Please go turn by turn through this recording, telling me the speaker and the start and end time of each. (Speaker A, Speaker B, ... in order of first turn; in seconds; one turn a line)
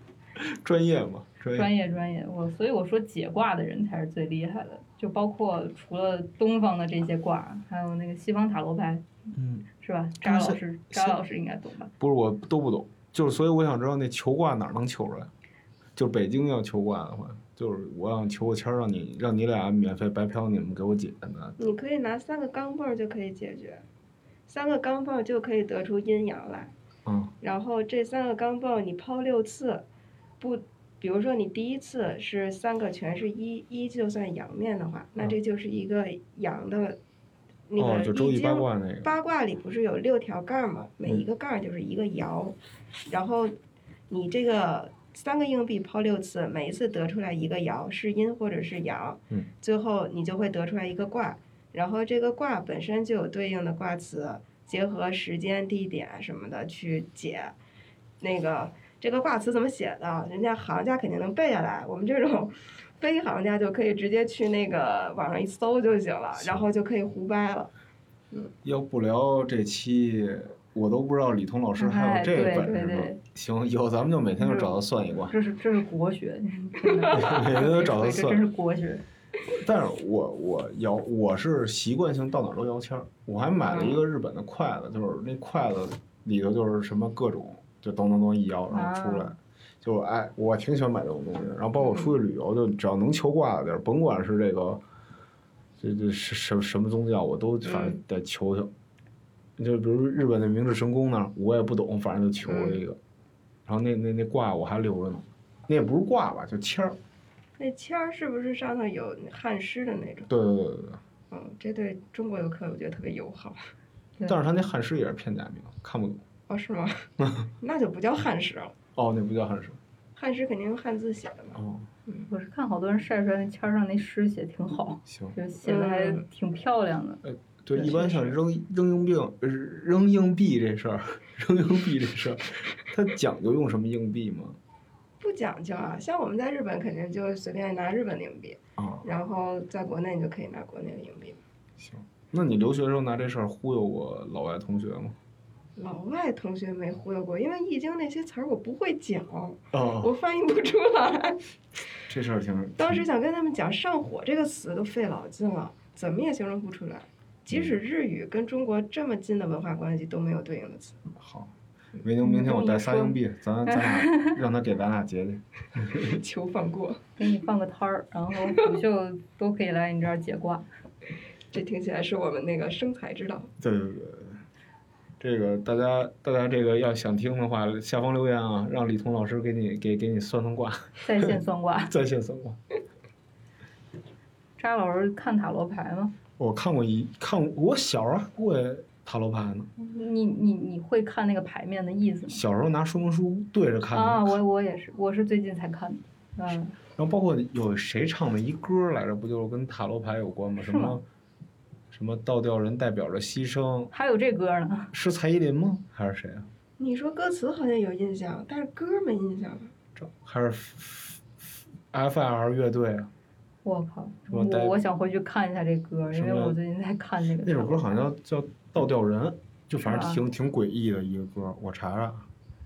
Speaker A: 0.4-1.7
Speaker B: 1.5-9.0
Speaker A: 9.3-9.6
Speaker B: 9.8-11.9
Speaker A: 10.2-11.2
Speaker A: 12.0-15.3
Speaker A: 15.9-21.6
Speaker C: 21.6-23.9
Speaker C: 24.5-26.7
Speaker A: 27.1-27.3
Speaker C: 27.4-29.9
Speaker C: 30.4-37.0
Speaker C: 37.7-42.5
Speaker A: 37.8-39.1
Speaker C: 43.1-43.5
Speaker C: 44.1-57.5
Speaker C: 58.2-67.7
Speaker A: 66.3-66.7
Speaker A: 68.6-75.4
Speaker B: 71.8-73.2
Speaker B: 74.4-74.7
Speaker B: 75.3-79.0
Speaker C: 76.9-77.3
Speaker A: 77.1-78.4
Speaker A: 79.5-94.8
Speaker C: 83.7-84.0
Speaker B: 88.7-89.3
Speaker C: 91.8-92.1
Speaker A: 95.8-98.7
Speaker C: 97.6-98.0
Speaker A: 99.6-103.0
Speaker C: 102.5-102.8
Speaker A: 103.7-107.0
Speaker C: 107.6-110.3
Speaker A: 110.3-111.0
Speaker C: 111.3-113.7
Speaker A: 114.2-116.2
Speaker C: 116.5-117.1
Speaker A: 117.2-117.5
Speaker C: 117.6-118.7
Speaker A: 119.0-119.8
Speaker C: 120.2-122.3
Speaker A: 121.5-121.9
Speaker B: 122.3-127.2
Speaker A: 125.0-125.4
Speaker C: 125.6-126.2
Speaker A: 127.2-134.6
Speaker B: 127.7-128.3
Speaker C: 135.2-141.4
Speaker A: 138.8-139.1
Speaker A: 141.8-145.2
Speaker C: 145.8-151.4
Speaker A: 149.7-150.1
Speaker A: 152.1-153.0
Speaker C: 152.8-161.0
Speaker A: 161.2-166.2
Speaker B: 162.2-164.4
Speaker C: 166.1-167.0
Speaker B: 167.2-170.7
Speaker C: 171.5-173.5
Speaker A: 173.6-174.4
Speaker A: 175.2-181.4
Speaker B: 181.0-181.9
Speaker A: 181.9-182.6
Speaker B: 184.6-186.1
Speaker A: 186.4-189.7
Speaker B: 189.8-192.4
Speaker A: 192.3-194.4
Speaker B: 193.9-196.8
Speaker A: 197.0-201.0
Speaker B: 200.6-201.0
Speaker A: 201.9-203.9
Speaker B: 203.9-204.9
Speaker A: 204.9-206.5
Speaker C: 206.8-209.7
Speaker A: 209.9-211.2
Speaker A: 211.9-213.1
Speaker B: 213.6-218.0
Speaker A: 214.3-214.7
Speaker A: 216.1-216.6
Speaker A: 217.4-222.3
Speaker B: 219.8-220.2